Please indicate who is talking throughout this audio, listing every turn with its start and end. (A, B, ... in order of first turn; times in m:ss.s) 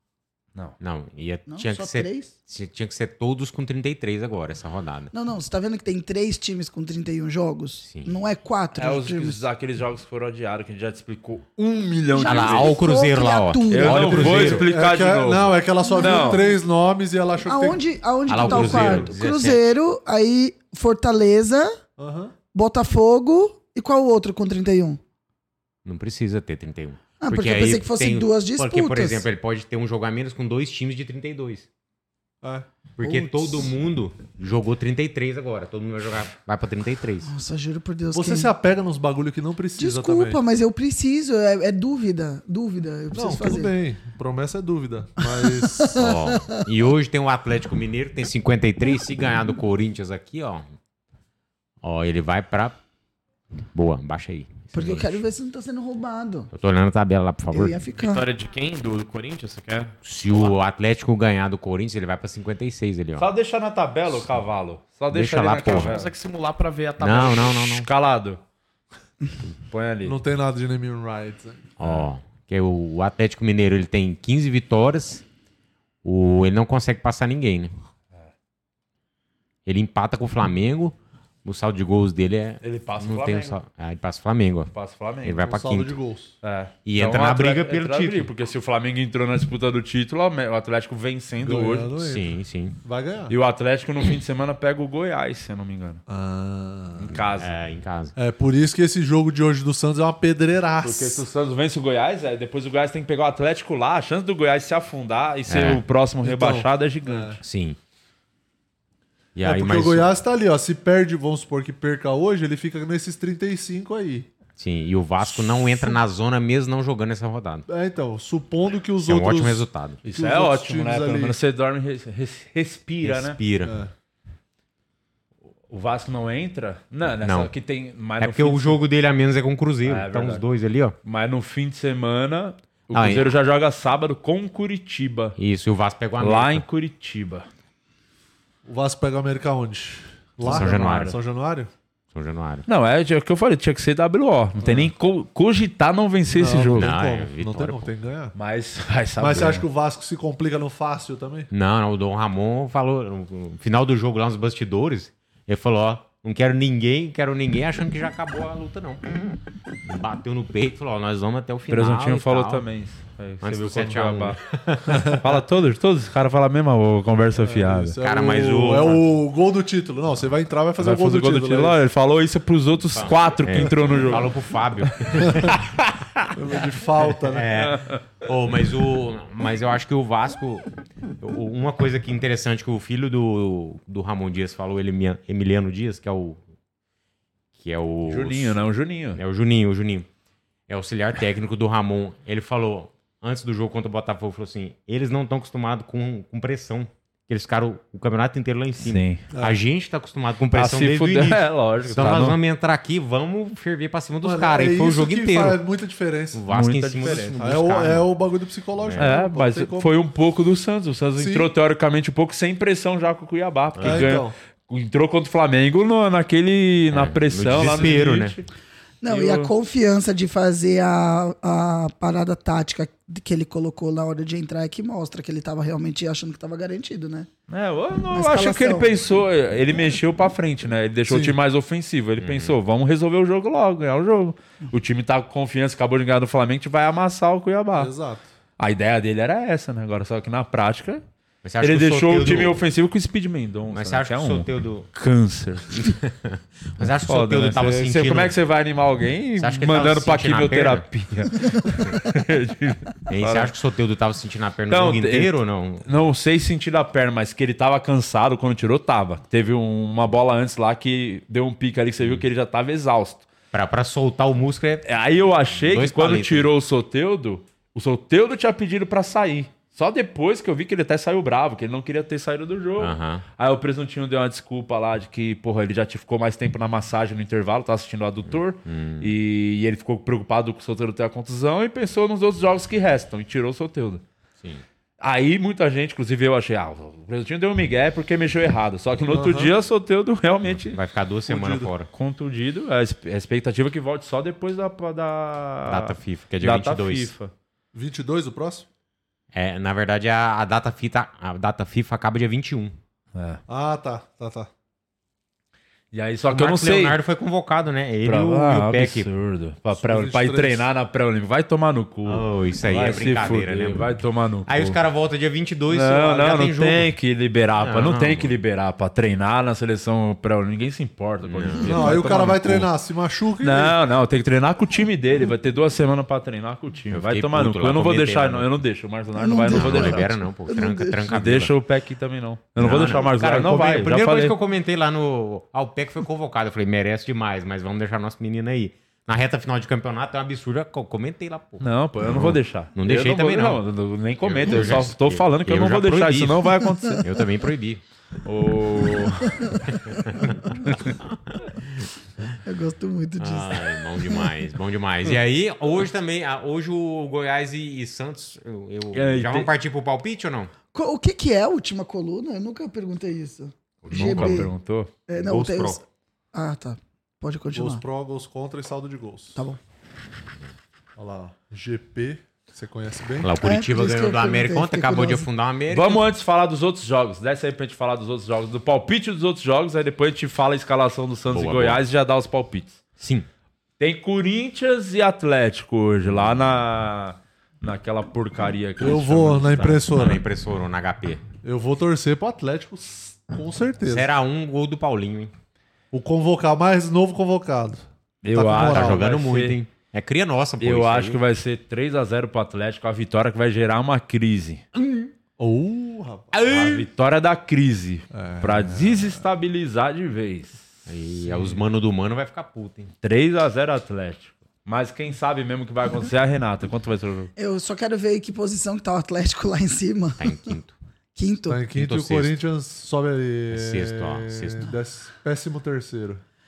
0:00.8-0:05.1 A
0:01.5-0:02.3 B
0:05.1-0:09.4 B
0:07.8-0:08.2 A
0:08.8-0:12.8 C
0:12.2-0:14.3 B
0:12.2-0:14.7 A
0:13.7-0:16.4 C
0:13.9-0:17.8 D
0:15.8-0:16.6 B
0:17.4-0:21.8 B
0:18.3-0:19.6 A
0:18.4-0:19.0 D
0:22.0-0:22.3 D
0:22.5-0:25.0 B
0:25.8-0:31.7 A
0:27.2-0:29.3 B
0:33.0-0:37.3 A
0:33.0-0:33.7 B
0:37.2-0:38.5 B
0:38.1-0:40.4 D
0:39.8-0:43.7 B
0:43.1-0:45.9 D
0:45.2-0:46.6 B
0:45.9-0:50.7 A
0:51.8-0:52.8 A
0:53.7-0:55.2 A
0:54.7-0:56.5 B
0:56.5-0:57.8 A
0:57.5-0:58.2 B
0:58.0-1:00.6 E
1:00.0-1:03.3 A
1:03.2-1:06.1 C
1:05.1-1:06.0 A
1:05.6-1:07.6 E
1:07.0-1:07.9 A
1:07.6-1:08.4 C
1:09.7-1:10.2 C
1:10.0-1:11.7 D
1:11.8-1:15.2 A
1:16.0-1:17.7 A
1:19.7-1:24.7 A
1:22.6-1:23.6 C
1:24.7-1:25.4 C
1:25.2-1:26.0 A
1:25.4-1:26.3 D
1:26.4-1:31.9 C
1:26.8-1:28.3 A
1:31.4-1:32.2 D
1:32.0-1:32.8 A
1:32.8-1:33.3 D
1:33.3-1:36.0 C
1:36.1-1:37.2 D
1:37.0-1:37.5 C
1:37.4-1:38.1 A
1:38.2-1:41.2 D
1:40.8-1:47.4 C
1:45.5-1:45.8 A
1:46.2-1:47.4 D
1:47.4-1:47.8 A
1:49.4-1:50.1 A
1:49.4-1:54.3 D
1:54.6-1:57.7 A
1:57.7-2:01.4 D
1:59.0-2:00.0 A
2:00.0-2:03.4 C
2:03.0-2:03.7 A
2:03.6-2:03.9 D
2:05.7-2:08.8 C
2:07.2-2:07.5 A
2:08.2-2:11.0 A
2:09.8-2:10.4 C
2:11.0-2:15.4 C
2:12.9-2:13.3 A
2:15.4-2:16.6 A
2:16.2-2:17.5 C
2:18.6-2:21.7 D
2:20.4-2:21.2 C
2:20.5-2:21.2 A
2:22.1-2:22.7 A
2:22.7-2:26.9 C
2:24.6-2:24.9 D
2:26.3-2:28.3 D
2:26.8-2:27.9 A
2:28.4-2:29.6 C
2:29.2-2:31.5 D
2:31.5-2:42.6 A
2:41.7-2:44.4 C
2:43.4-2:45.1 A
2:44.9-2:45.2 D
2:45.2-2:48.0 C
2:47.4-2:51.8 D
2:48.0-2:49.0 A
2:50.8-2:54.3 C
2:52.9-2:55.6 A
2:56.4-2:57.5 D
2:57.3-3:00.7 A
2:57.6-2:58.0 C
3:01.2-3:06.4 A
3:07.6-3:08.6 A
3:08.1-3:09.2 C
3:09.1-3:10.1 A
3:10.7-3:25.6 A
3:18.8-3:19.2 C
3:19.3-3:19.6 D
3:20.5-3:22.4 C
3:24.2-3:26.4 D
3:26.3-3:28.1 A
3:26.5-3:27.4 C
3:27.3-3:30.0 D
3:28.8-3:29.2 A
3:29.0-3:38.5 C
3:31.2-3:31.5 D
3:33.8-3:34.2 A
3:33.8-3:34.3 D
3:36.9-3:38.4 A
3:39.0-3:47.3 B
3:39.1-3:39.5 C
3:47.5-3:57.9 C
3:48.1-3:48.9 B
3:51.1-3:51.4 D
3:52.2-3:52.6 A
3:57.8-3:58.2 D
3:58.6-4:01.0 C
4:01.4-4:02.6 A
4:01.6-4:05.9 C
4:03.7-4:04.9 A
4:05.7-4:08.4 A
4:07.1-4:13.5 C
4:09.4-4:10.9 A
4:13.1-4:15.8 A
4:14.7-4:15.3 C
4:15.8-4:23.3 C
4:23.5-4:24.8 A
4:24.8-4:44.0 C
4:25.6-4:26.5 A
4:32.8-4:33.2 A
4:38.3-4:39.2 A
4:45.0-4:50.8 C
4:49.1-4:49.5 D
4:50.5-4:51.9 A
4:51.3-4:51.7 D
4:51.9-4:57.3 C
4:55.7-4:57.1 A
4:57.7-4:58.7 D
4:59.3-5:02.8 A
5:03.1-5:03.4 C
5:03.5-5:04.5 D
5:05.9-5:07.0 C
5:06.3-5:09.1 A
5:08.0-5:14.8 C
5:09.8-5:10.7 D
5:12.0-5:13.9 A
5:14.5-5:16.9 A
5:15.7-5:22.7 C
5:17.6-5:18.4 A
5:21.2-5:22.1 A
5:21.6-5:23.8 D
5:23.4-5:30.1 C
5:26.9-5:28.5 A
5:29.2-5:31.1 B
5:29.5-5:31.5 A
5:31.1-5:34.4 C
5:32.6-5:43.6 A
5:41.6-5:47.1 C
5:44.2-5:47.8 A
5:48.2-5:49.4 C
5:49.5-5:50.2 B
5:50.1-5:51.3 A
5:50.7-5:50.9 C
5:52.4-5:54.1 B
5:53.2-6:00.5 A
5:58.9-5:59.5 C
6:00.7-6:04.5 B
6:03.8-6:04.5 A
6:03.9-6:04.9 C
6:05.1-6:07.8 B
6:05.2-6:05.8 A
6:07.5-6:09.4 D
6:11.0-6:13.3 D
6:13.2-6:16.0 A
6:13.4-6:15.3 B
6:15.7-6:22.8 C
6:21.3-6:21.8 A
6:23.0-6:23.3 A
6:23.8-6:29.8 C
6:28.8-6:30.2 D
6:29.6-6:31.2 A
6:31.4-6:34.1 D
6:33.9-6:35.3 A
6:35.9-6:39.1 D
6:38.2-6:39.6 C
6:38.6-6:41.2 A
6:40.6-6:44.6 C
6:44.8-6:45.1 A
6:45.4-6:46.3 D
6:46.3-6:46.9 A
6:46.4-6:50.8 C
6:48.1-6:49.2 D
6:50.9-6:52.9 A
6:51.3-6:51.6 D
6:53.0-6:57.3 C
6:57.4-7:00.5 B
7:00.2-7:00.8 A
7:01.2-7:01.6 B
7:01.5-7:06.2 D
7:01.7-7:02.4 A
7:03.5-7:04.7 A